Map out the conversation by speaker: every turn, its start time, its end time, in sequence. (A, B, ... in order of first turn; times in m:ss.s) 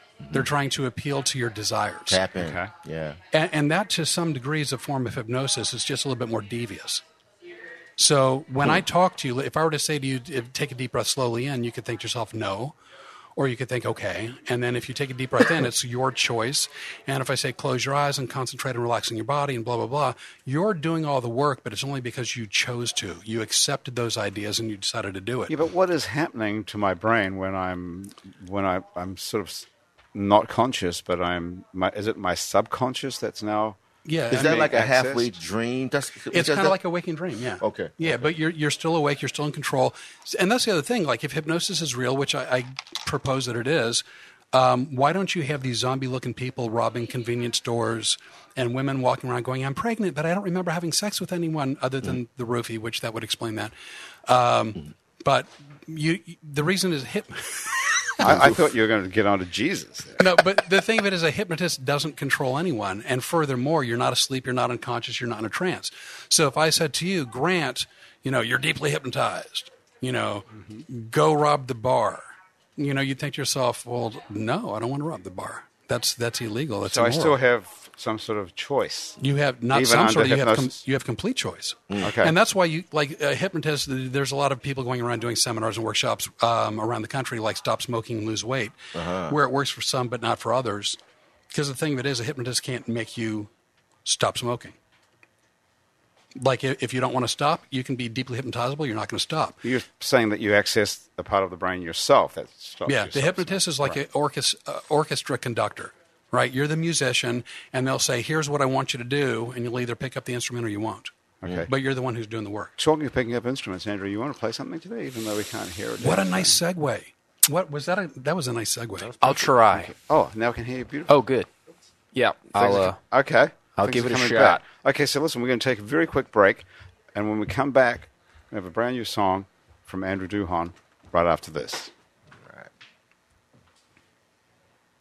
0:00.2-0:00.5 A
0:00.3-0:02.2 B
0:02.1-0:03.2 A
0:02.4-0:02.7 C
0:03.3-0:07.0 B
0:08.0-0:12.8 B
0:13.4-0:25.5 B
0:25.5-0:33.8 C
0:34.0-0:34.7 B
0:34.3-0:36.8 A
0:34.3-0:35.3 C
0:36.3-0:53.7 B
0:37.6-0:38.2 A
0:54.3-0:58.5 B
0:58.2-1:00.3 C
1:00.2-1:17.4 B
1:10.6-1:10.8 C
1:16.8-1:19.2 C
1:19.2-1:31.0 B
1:19.7-1:20.8 C
1:22.0-1:22.3 C
1:28.9-1:29.4 A
1:31.5-1:33.5 B
1:34.0-1:34.8 B
1:36.4-1:39.6 B
1:39.6-1:44.0 C
1:42.8-1:51.1 B
1:51.4-1:51.7 C
1:51.6-1:52.7 B
1:52.8-1:56.6 C
1:56.0-1:59.1 B
1:59.2-1:59.9 D
1:59.2-2:01.2 C
2:01.1-2:01.5 D
2:02.1-2:03.0 D
2:02.5-2:11.9 C
2:03.8-2:04.6 D
2:12.4-2:12.7 A